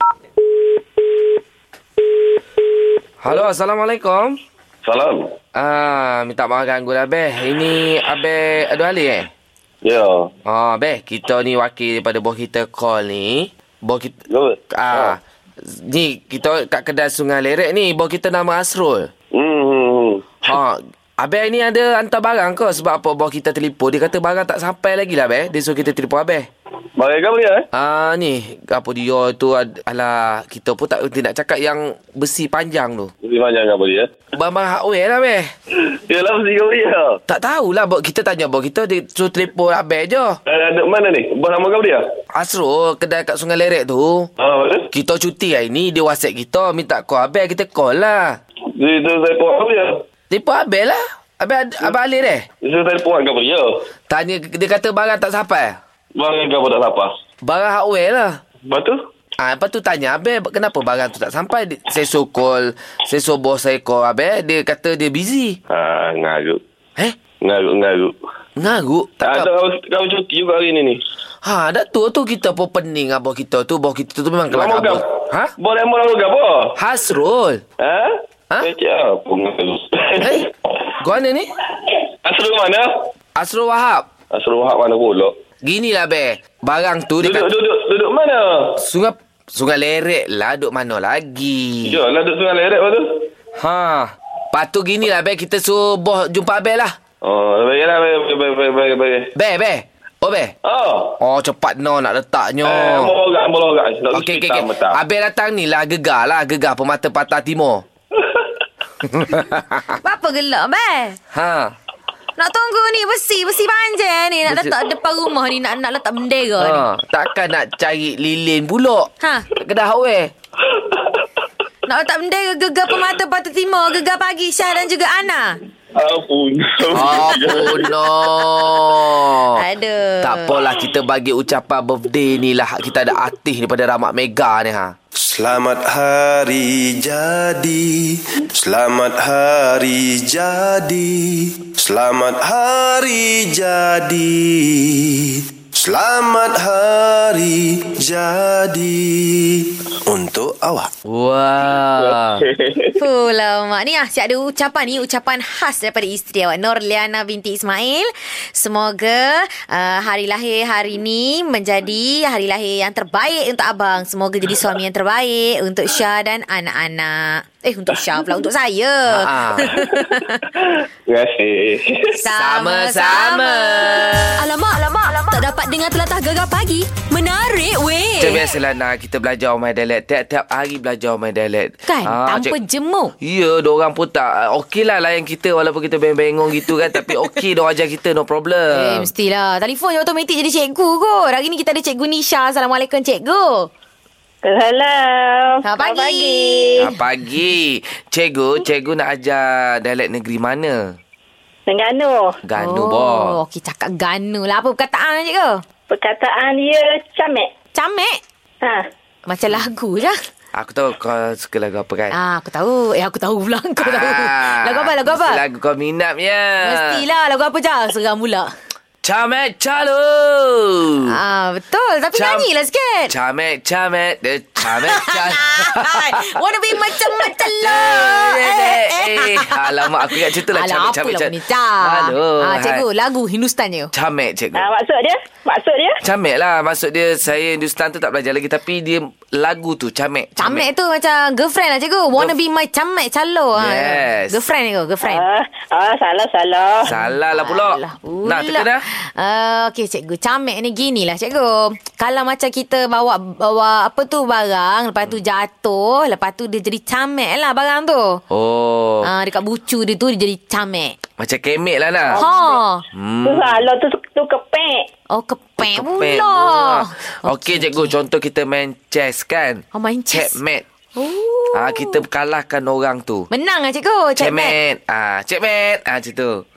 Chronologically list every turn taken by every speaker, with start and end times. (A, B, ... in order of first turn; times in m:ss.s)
0:03.2-0:04.4 A
0:04.8-0:05.3 B
0:05.5-0:09.3 A
0:09.8-0:10.3 B
0:10.4-0:14.2 A
0:14.3-0:15.2 B
0:14.7-0:19.1 A
0:19.3-0:20.6 B
0:20.4-0:26.5 A
0:27.0-0:27.7 B
0:27.7-0:33.1 A
0:33.2-0:34.1 B
0:34.4-0:35.5 A
0:35.9-0:37.2 B
0:37.3-0:40.4 A
0:40.4-0:42.0 B
0:42.3-0:44.3 A
0:44.4-0:44.9 B
0:44.9-0:48.4 A
0:48.8-0:50.0 B
0:50.3-0:52.4 A
0:52.6-0:53.8 B
0:54.1-0:55.8 A
0:56.2-0:57.1 B
0:57.4-0:58.4 A
0:58.7-0:59.0 B
0:59.4-1:05.6 A
1:05.7-1:06.6 B
1:07.4-1:08.2 B
1:08.6-1:09.5 A
1:09.2-1:11.0 B
1:11.4-1:15.5 A
1:14.5-1:16.8 B
1:16.8-1:17.6 A
1:17.8-1:20.5 B
1:20.2-1:20.4 A
1:21.0-1:21.5 A
1:22.2-1:23.0 B
1:23.4-1:24.1 A
1:24.3-1:25.3 B
1:25.6-1:27.5 A
1:27.2-1:28.8 B
1:28.8-1:32.0 A
1:31.8-1:33.2 B
1:33.6-1:37.0 A
1:37.2-1:39.3 B
1:39.4-1:40.5 A
1:40.6-1:41.2 B
1:41.2-1:43.1 A
1:42.6-1:45.0 B
1:44.1-1:47.8 A
1:48.1-1:48.6 B
1:49.0-1:50.0 A
1:50.0-1:51.2 C
1:51.3-1:51.7 A
1:52.4-1:56.8 C
1:54.5-1:54.7 A
1:56.6-2:00.3 A
1:59.2-1:59.5 C
2:00.6-2:01.2 B
2:01.8-2:05.6 C
2:05.9-2:08.6 B
2:06.9-2:09.6 A
2:09.5-2:10.6 C
2:10.2-2:14.9 A
2:15.2-2:30.9 D
2:31.1-2:32.4 A
2:32.0-2:33.0 B
2:33.0-2:50.4 C
2:49.1-2:49.8 A
2:50.6-2:52.2 B
2:52.2-2:54.3 C
2:52.3-2:54.3 A
2:54.4-2:58.4 E
2:58.2-3:02.6 A
3:01.8-3:03.1 C
3:03.2-3:09.1 A
3:08.7-3:13.7 C
3:14.4-3:16.9 F
3:15.6-3:16.8 C
3:16.8-3:20.9 A
3:21.7-3:22.3 F
3:22.4-3:23.4 A
3:22.6-3:25.6 C
3:25.9-3:27.5 F
3:27.7-3:28.2 C
3:29.3-3:30.2 C
3:30.5-3:32.1 A
3:32.1-3:35.4 C
3:33.8-3:37.0 A
3:36.6-3:38.5 C
3:39.0-3:41.1 A
3:41.1-3:43.1 C
3:42.1-3:42.4 A
3:43.1-3:52.8 A
3:44.7-3:53.9 C
3:53.9-3:54.7 A
3:54.5-3:56.0 F
3:56.0-4:00.6 A
4:00.4-4:05.2 C
4:03.6-4:04.4 A
4:05.0-4:06.9 F
4:06.8-4:08.8 A
4:06.9-4:18.2 C
4:18.3-4:19.1 A
4:19.0-4:20.9 C
4:21.2-4:22.2 A
4:22.1-4:22.6 F
4:22.1-4:22.8 C
4:22.9-4:23.6 A
4:23.2-4:24.8 F
4:25.1-4:27.9 C
4:25.6-4:30.6 A
4:29.7-4:30.4 C
4:31.0-4:32.0 C
4:31.5-4:33.3 A
4:33.3-4:34.5 C
4:34.2-4:36.4 A